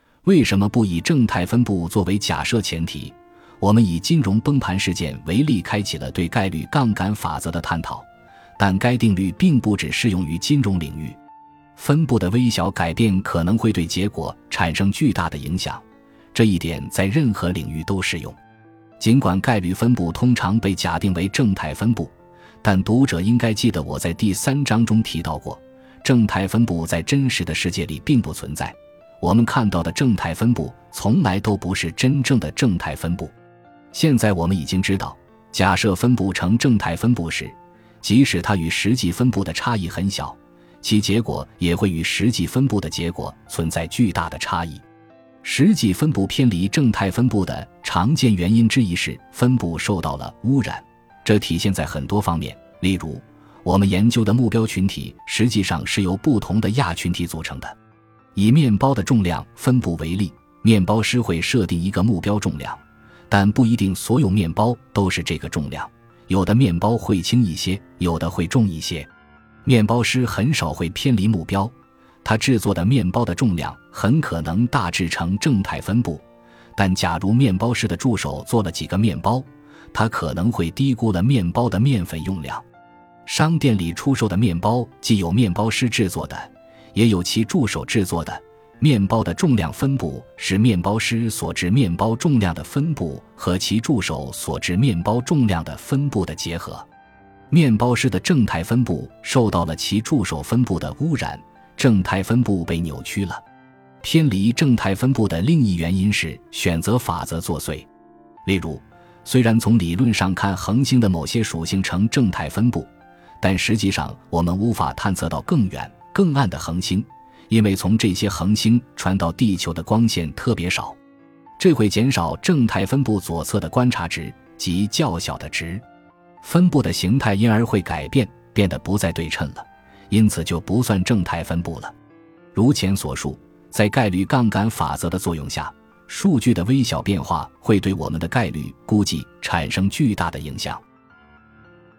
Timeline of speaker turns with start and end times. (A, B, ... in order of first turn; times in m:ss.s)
0:00.2-0:08.1 A
0:08.6-0:11.2 A
0:11.8-0:18.4 A
0:19.0-0:33.3 A
0:33.9-0:44.8 A
0:45.4-0:57.8 A
0:58.3-1:09.1 A
1:09.6-1:16.2 A
1:16.8-1:22.6 A
1:23.2-1:36.9 A
1:37.5-1:43.4 A
1:44.0-1:47.9 A
1:48.4-2:01.0 A
2:01.6-2:05.8 A
2:06.4-2:11.9 A
2:12.5-2:20.8 A